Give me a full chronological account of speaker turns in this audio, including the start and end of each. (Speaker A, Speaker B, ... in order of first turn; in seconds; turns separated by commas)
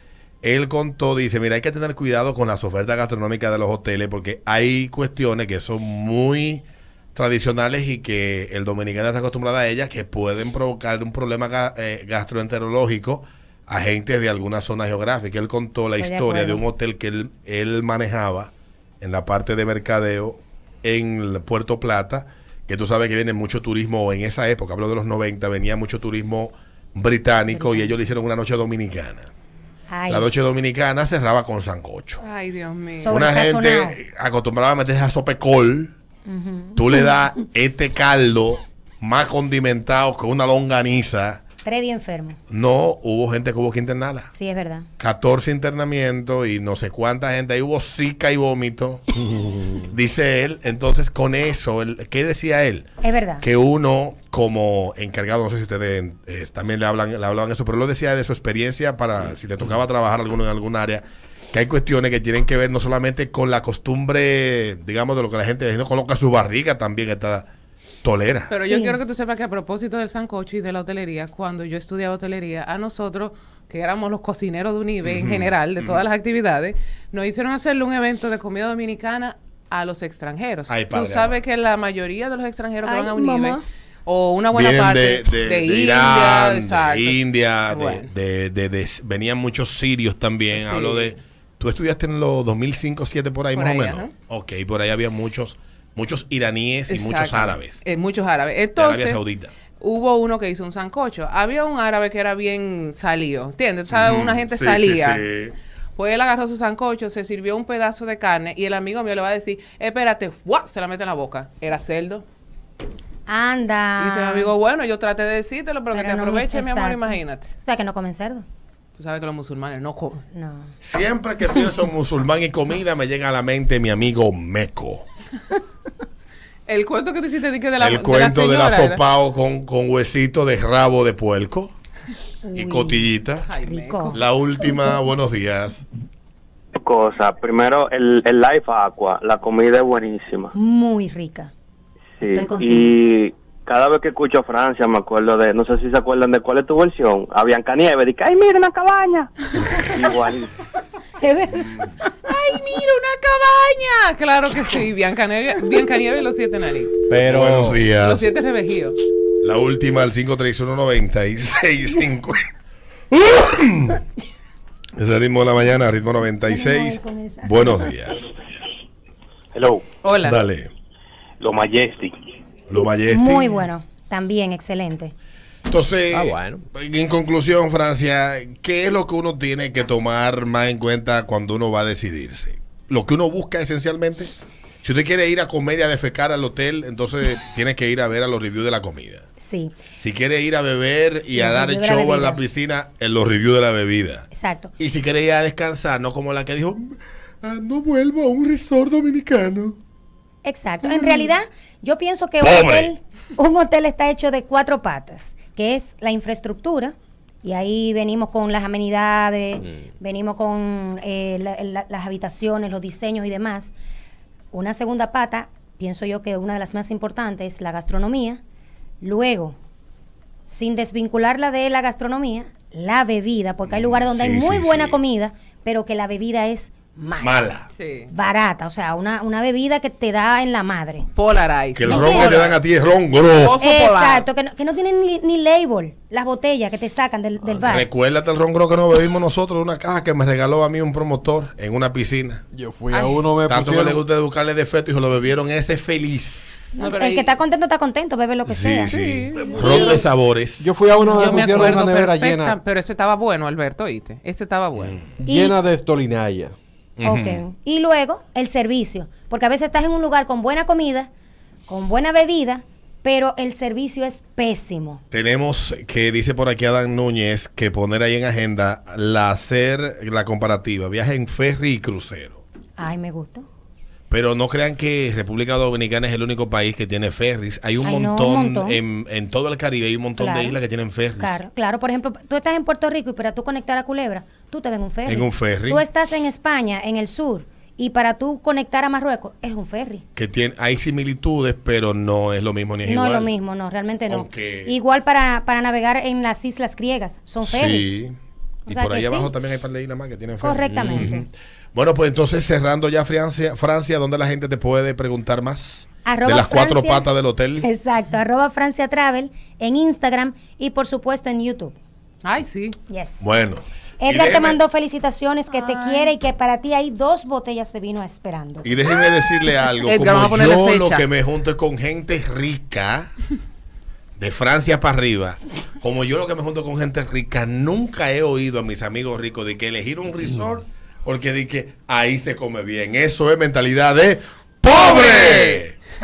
Speaker A: 0.4-6.6, Speaker A: 7.2-29.3, Speaker B: 16.0-16.6, Speaker B: 27.5-27.9, Speaker B: 29.9-30.3, Speaker A: 30.1-32.3, Speaker C: 32.2-33.2, Speaker B: 33.0-34.0, Speaker A: 33.1-35.9, Speaker B: 36.3-37.0, Speaker A: 36.8-41.4, Speaker B: 41.6-42.4, Speaker A: 42.5-44.3, Speaker B: 44.3-44.9, Speaker A: 45.0-52.9, Speaker B: 53.0-53.5, Speaker A: 53.4-67.5, Speaker A: 68.0-68.6, Speaker C: 68.5-88.1, Speaker B: 68.6-69.0, Speaker A: 75.0-76.0, Speaker A: 80.7-81.4, Speaker B: 82.8-83.6, Speaker A: 84.5-97.8, Speaker C: 90.5-91.2, Speaker C: 93.5-94.1, Speaker C: 96.9-99.2, Speaker A: 98.8-99.5, Speaker C: 99.8-105.3, Speaker A: 103.9-105.5, Speaker C: 106.0-112.2, Speaker B: 113.3-114.5, Speaker C: 114.0-117.5, Speaker B: 115.9-118.5, Speaker C: 119.0-120.2, Speaker B: 120.3-120.7, Speaker A: 120.8-125.1, Speaker C: 126.7-129.0, Speaker A: 127.8-131.7, Speaker B: 132.4-133.1, Speaker A: 132.6-133.5, Speaker C: 133.5-134.2, Speaker B: 133.6-134.2, Speaker A: 134.1-135.8, Speaker D: 136.8-140.5, Speaker B: 140.5-141.5, Speaker D: 142.2-149.3, Speaker B: 142.3-143.0, Speaker D: 149.9-150.5, Speaker B: 151.2-151.8, Speaker A: 151.5-151.9, Speaker C: 152.3-157.1, Speaker E: 157.1-157.9, Speaker A: 157.1-158.3, Speaker C: 157.9-159.0, Speaker A: 159.4-162.4, Speaker A: 163.1-164.0, Speaker A: 165.0-168.3, Speaker B: 166.5-167.9, Speaker D: 169.5-169.9, Speaker C: 170.0-170.4, Speaker A: 170.2-170.7, Speaker D: 171.4-172.2, Speaker A: 172.7-173.6, Speaker B: 173.1-175.1, Speaker A: 175.7-184.3, Speaker E: 176.1-176.7, Speaker A: 184.8-189.2, Speaker B: 189.4-189.8, Speaker A: 190.0-199.8, Speaker B: 191.3-192.4, Speaker B: 194.3-194.7, Speaker B: 200.4-213.7, Speaker A: 202.4-202.9, Speaker B: 214.5-218.4, Speaker B: 219.0-219.6, Speaker B: 220.5-227.4, Speaker A: 223.7-225.0, Speaker A: 227.2-227.7, Speaker C: 227.8-228.1, Speaker B: 228.1-231.1, Speaker C: 231.2-232.6, Speaker A: 231.8-233.6, Speaker B: 231.8-232.4, Speaker C: 233.4-234.3, Speaker B: 233.6-237.9, Speaker A: 237.6-242.4, Speaker E: 242.5-244.0, Speaker C: 242.9-243.3, Speaker A: 243.5-246.8, Speaker C: 246.8-247.3, Speaker B: 246.8-249.0, Speaker A: 248.5-250.7, Speaker C: 248.9-250.1, Speaker E: 250.6-252.6, Speaker C: 251.1-255.0, Speaker E: 255.2-256.6, Speaker B: 255.2-255.6, Speaker A: 257.0-257.4, Speaker B: 257.0-261.1, Speaker B: 261.7-265.0, Speaker A: 265.1-272.4, Speaker B: 272.8-273.5, Speaker A: 274.1-281.4, Speaker B: 277.8-278.8, Speaker B: 280.2-280.6, Speaker B: 281.2-290.0, Speaker A: 285.1-285.8, Speaker A: 290.2-293.3, Speaker B: 292.8-297.9, Speaker A: 294.1-294.8, Speaker A: 297.4-298.2, Speaker B: 298.7-299.3, Speaker A: 298.7-307.7, Speaker B: 300.4-301.3, Speaker B: 306.1-307.1, Speaker B: 307.6-311.8, Speaker C: 312.2-312.8, Speaker B: 312.9-313.3, Speaker A: 313.2-314.6, Speaker B: 314.0-318.7, Speaker C: 315.5-316.1, Speaker A: 318.6-323.1, Speaker C: 319.8-321.1, Speaker A: 324.2-335.8, Speaker C: 334.7-335.6